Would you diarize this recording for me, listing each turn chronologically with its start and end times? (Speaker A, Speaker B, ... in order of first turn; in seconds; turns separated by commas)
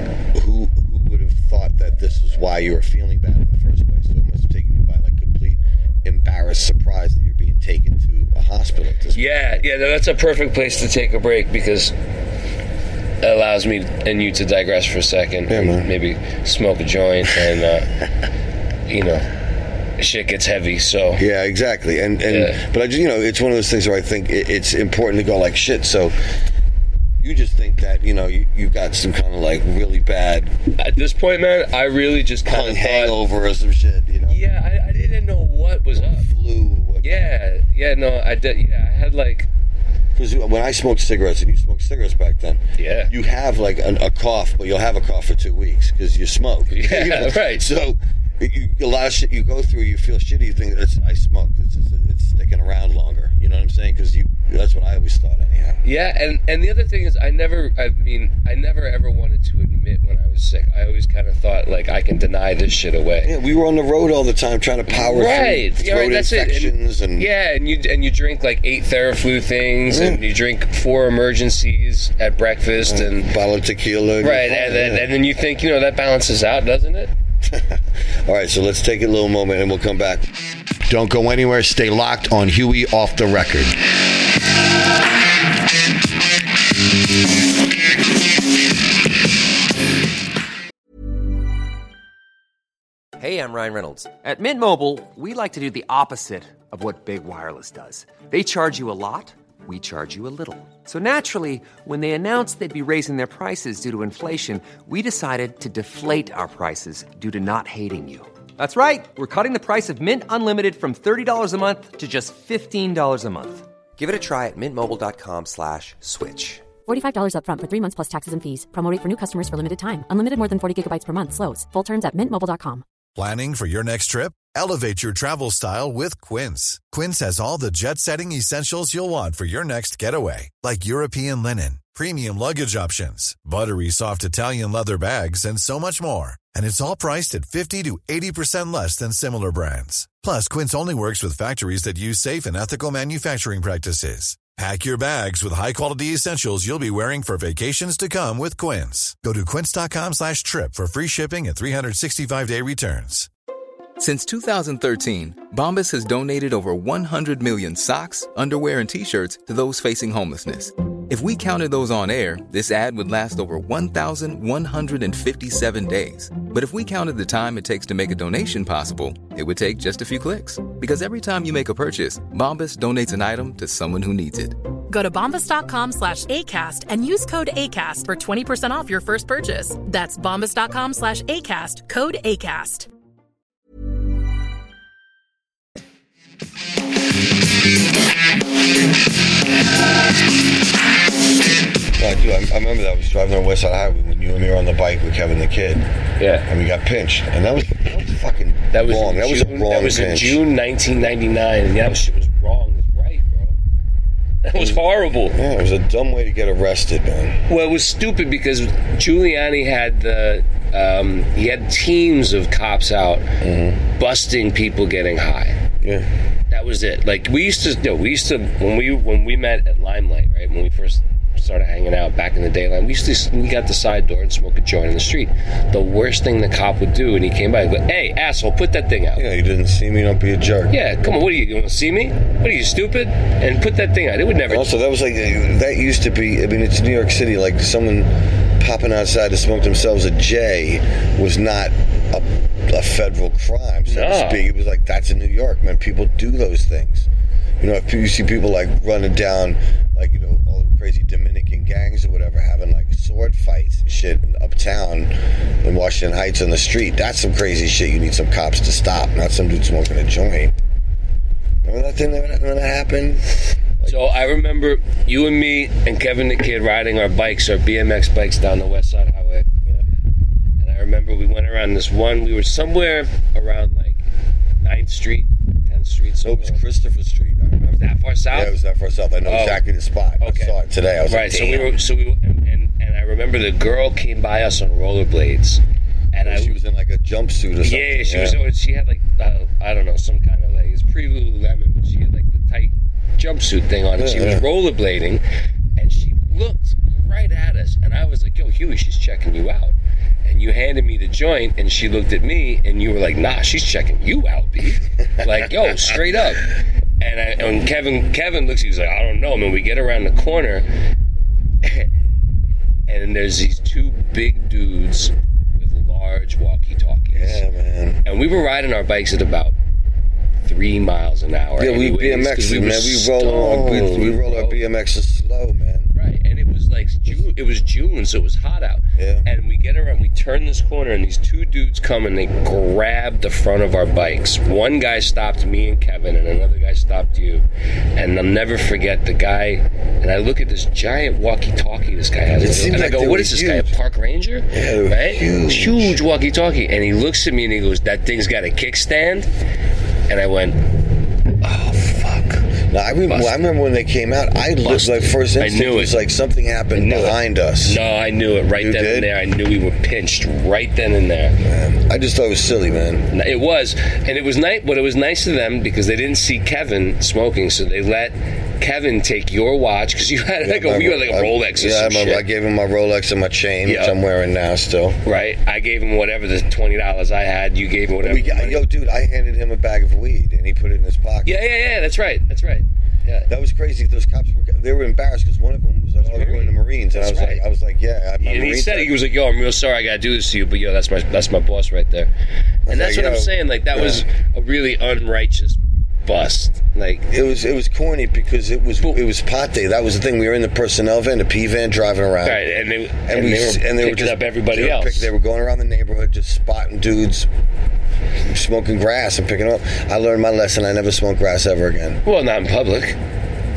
Speaker A: 0.3-9.5, Speaker B: 9.1-11.9, Speaker B: 13.2-18.0, Speaker A: 15.5-15.9, Speaker B: 18.9-19.3, Speaker B: 20.0-21.2, Speaker A: 21.2-26.1, Speaker B: 22.3-22.6, Speaker A: 27.2-30.5, Speaker B: 30.8-33.2, Speaker A: 32.5-34.4, Speaker B: 34.3-36.3, Speaker A: 35.9-37.3, Speaker B: 37.0-39.5, Speaker A: 40.2-55.8, Speaker B: 42.8-43.1, Speaker B: 46.7-47.7, Speaker B: 55.8-63.3, Speaker A: 63.2-67.3, Speaker B: 64.9-73.3, Speaker A: 69.9-70.2, Speaker A: 72.9-75.1, Speaker B: 74.2-77.1, Speaker A: 77.5-80.3, Speaker A: 80.9-83.8, Speaker C: 93.2-116.7, Speaker D: 116.9-122.8, Speaker E: 123.2-153.3, Speaker F: 154.0-174.6, Speaker G: 174.9-182.9, Speaker A: 192.0-195.9, Speaker B: 196.2-196.5, Speaker A: 196.5-200.4, Speaker B: 198.7-203.6, Speaker B: 204.4-205.4, Speaker A: 204.6-207.4, Speaker B: 207.5-213.2, Speaker A: 213.4-213.8, Speaker B: 214.0-215.6, Speaker A: 215.8-216.1, Speaker B: 216.5-229.3, Speaker A: 229.1-230.8, Speaker B: 230.7-234.7, Speaker A: 234.5-247.1, Speaker B: 243.9-244.5, Speaker A: 247.6-260.5, Speaker A: 261.6-264.1, Speaker B: 263.9-269.5, Speaker B: 270.6-274.1, Speaker B: 274.6-276.6, Speaker A: 276.2-281.7, Speaker B: 277.8-278.6, Speaker B: 279.2-279.6, Speaker B: 280.2-280.6, Speaker B: 281.1-285.6, Speaker B: 286.1-286.6, Speaker A: 286.2-288.4, Speaker B: 287.6-295.2, Speaker A: 294.0-294.5, Speaker B: 295.8-310.7, Speaker B: 311.6-311.9, Speaker B: 312.9-317.4, Speaker A: 317.1-318.0, Speaker B: 318.1-319.5, Speaker B: 320.4-324.6, Speaker A: 321.6-325.9, Speaker B: 326.0-337.4, Speaker A: 329.0-329.3, Speaker B: 338.0-349.3, Speaker A: 342.3-343.7, Speaker A: 344.5-346.0, Speaker B: 350.1-350.6, Speaker B: 351.4-352.4, Speaker A: 351.5-351.8, Speaker A: 352.6-357.8, Speaker B: 353.1-353.4, Speaker B: 354.6-356.0, Speaker B: 356.7-361.4, Speaker A: 358.6-359.1, Speaker A: 361.4-363.1, Speaker B: 363.1-372.2, Speaker A: 370.4-375.0, Speaker B: 373.6-374.0, Speaker B: 375.1-378.6, Speaker A: 378.0-381.4, Speaker B: 381.3-383.3, Speaker A: 383.3-388.9, Speaker B: 386.0-387.4, Speaker B: 388.2-392.1, Speaker A: 392.7-394.0, Speaker B: 392.7-397.1, Speaker A: 397.1-402.5, Speaker B: 402.2-405.1, Speaker A: 403.1-407.3, Speaker A: 408.2-412.0, Speaker B: 412.1-413.0